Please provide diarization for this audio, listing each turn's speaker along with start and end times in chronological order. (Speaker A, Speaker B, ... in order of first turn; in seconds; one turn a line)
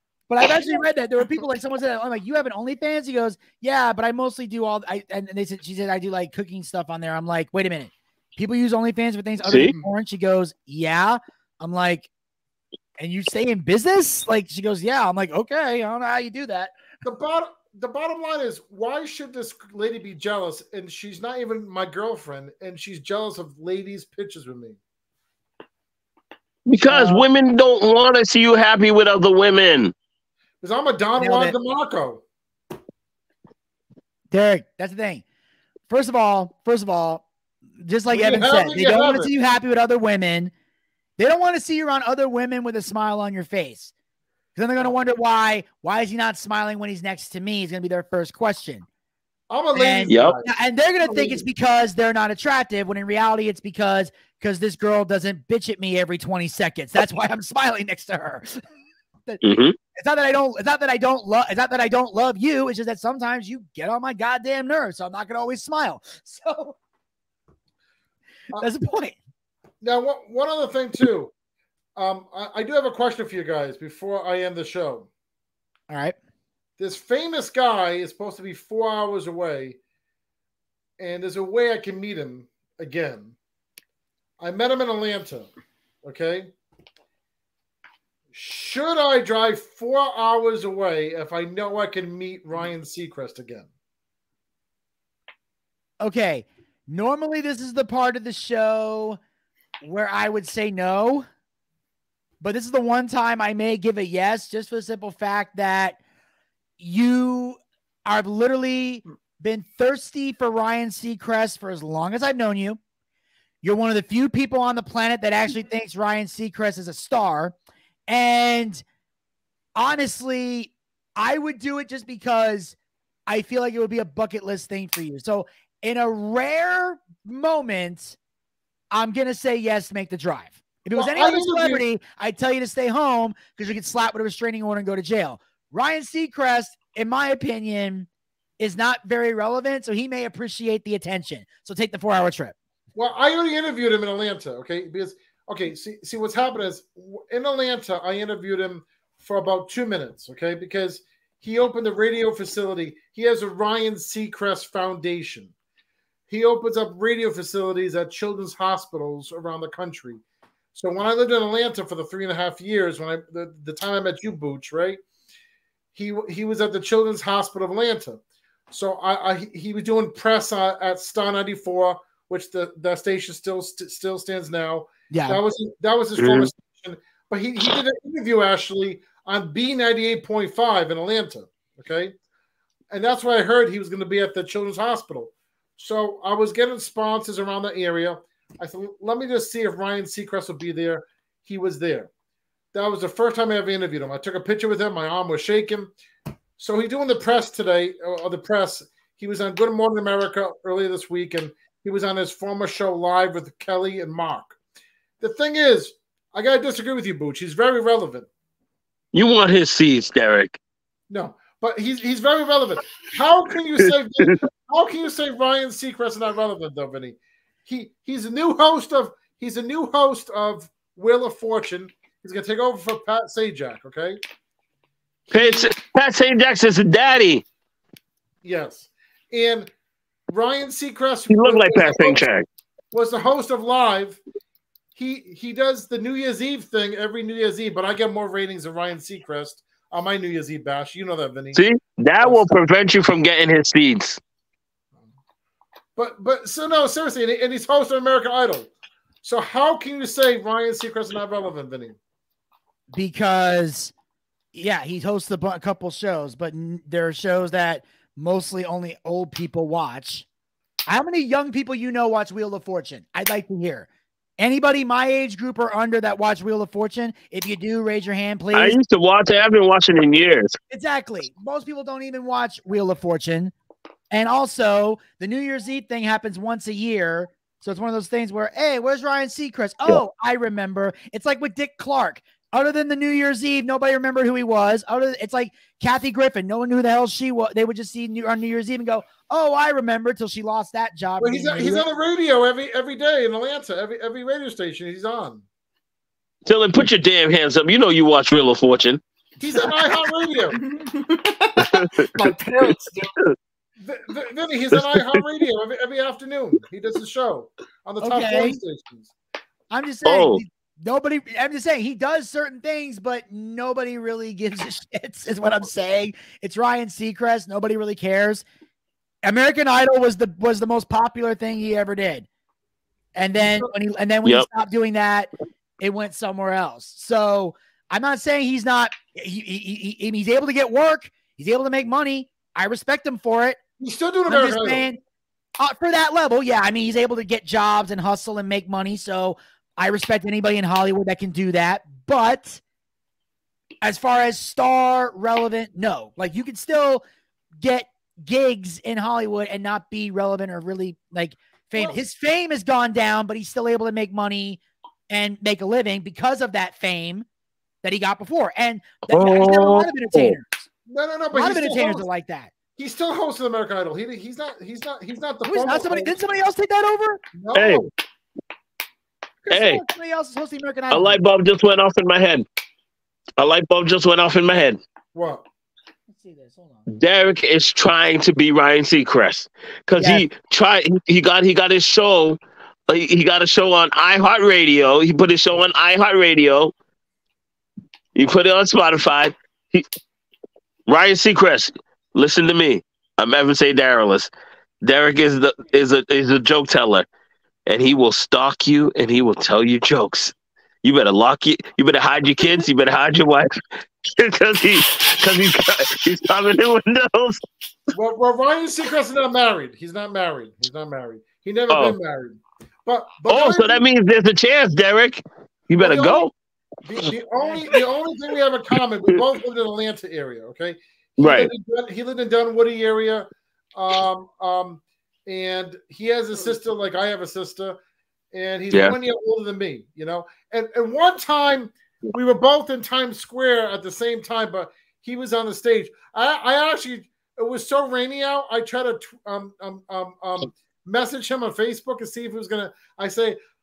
Speaker A: 0.3-12.1
Speaker B: 9.4-9.7
Speaker A: 13.0-16.7
Speaker C: 17.0-24.8
Speaker B: 26.6-29.9
Speaker A: 26.8-27.2
Speaker C: 30.6-32.2
Speaker A: 31.2-31.6
Speaker A: 34.3-35.2
Speaker A: 35.9-37.2
Speaker A: 37.8-40.5
Speaker C: 38.1-39.3
Speaker A: 41.2-43.9
Speaker A: 44.5-48.9
Speaker C: 49.5-51.4
Speaker A: 49.7-58.6
Speaker B: 50.1-50.4
Speaker B: 59.4-59.8
Speaker A: 59.9-66.8
Speaker A: 68.6-69.2
Speaker C: 69.8-71.3
Speaker C: 72.0-75.1
Speaker A: 75.9-76.2
Speaker C: 76.8-79.8
Speaker C: 81.0-83.4
Speaker C: 84.4-85.5
Speaker C: 86.0-86.5
Speaker C: 88.3-93.7
Speaker A: 96.0-99.2
Speaker A: 99.8-101.2
Speaker A: 102.4-106.0
Speaker A: 106.8-112.8
Speaker A: 113.6-117.5
Speaker A: 118.1-118.8
Speaker A: 119.8-122.8
Speaker A: 123.3-128.2
Speaker A: 128.9-138.1
Speaker C: 130.9-131.8
Speaker A: 138.6-142.6
Speaker C: 142.9-155.5
Speaker C: 156.3-160.2
Speaker C: 160.7-165.0
Speaker C: 165.9-168.2
Speaker C: 168.7-182.1
Speaker A: 175.1-175.4
Speaker B: 176.2-176.5
Speaker C: 182.9-192.1
Speaker C: 192.7-195.9
Speaker C: 196.6-204.6
Speaker C: 205.2-208.3
Speaker B: 209.1-210.6
Speaker C: 211.1-224.2
Speaker B: 213.8-214.3
Speaker C: 225.3-225.7
Speaker B: 225.3-227.4
Speaker C: 228.4-229.7
Speaker C: 230.3-232.3
Speaker B: 231.3-232.4
Speaker C: 232.9-234.2
Speaker C: 234.9-241.6
Speaker B: 241.5-244.2
Speaker C: 242.2-242.6
Speaker C: 245.9-248.7
Speaker C: 249.2-251.9
Speaker A: 252.9-253.9
Speaker A: 254.5-260.2
Speaker A: 260.9-263.9
Speaker A: 264.4-268.8
Speaker B: 268.5-270.6
Speaker A: 270.7-273.5
Speaker A: 274.1-291.8
Speaker C: 291.2-295.4
Speaker B: 296.4-299.0
Speaker C: 299.4-300.6
Speaker D: 300.7-303.1
Speaker B: 301.6-302.1
Speaker C: 303.8-309.1
Speaker B: 304.7-305.2
Speaker A: 308.0-308.6
Speaker A: 309.7-318.4
Speaker B: 310.1-310.4
Speaker A: 319.2-322.3
Speaker A: 323.1-333.6
Speaker C: 323.3-323.7
Speaker C: 333.8-334.9
Speaker A: 334.3-335.0
Speaker A: 335.6-342.6
Speaker A: 343.8-347.0
Speaker A: 347.6-357.2
Speaker A: 357.8-360.6
Speaker B: 359.1-360.4
Speaker C: 360.9-362.1
Speaker A: 361.3-362.5
Speaker C: 362.8-366.2
Speaker A: 365.4-367.2
Speaker C: 367.3-367.9
Speaker B: 367.5-367.9
Speaker A: 369.4-371.2
Speaker B: 369.5-369.8
Speaker B: 370.9-372.4
Speaker B: 373.4-374.8
Speaker C: 375.1-375.4
Speaker A: 376.1-376.9
Speaker B: 376.9-386.7
Speaker A: 380.0-380.2
Speaker B: 388.1-389.8
Speaker B: 390.9-394.3
Speaker B: 394.8-397.1
Speaker B: 397.7-403.5
Speaker B: 404.1-407.4
Speaker C: 407.9-413.8
Speaker B: 411.7-412.0
Speaker B: 413.3-416.3
Speaker C: 415.8-416.3
Speaker C: 416.8-427.8
Speaker B: 421.2-421.5
Speaker C: 428.3-443.4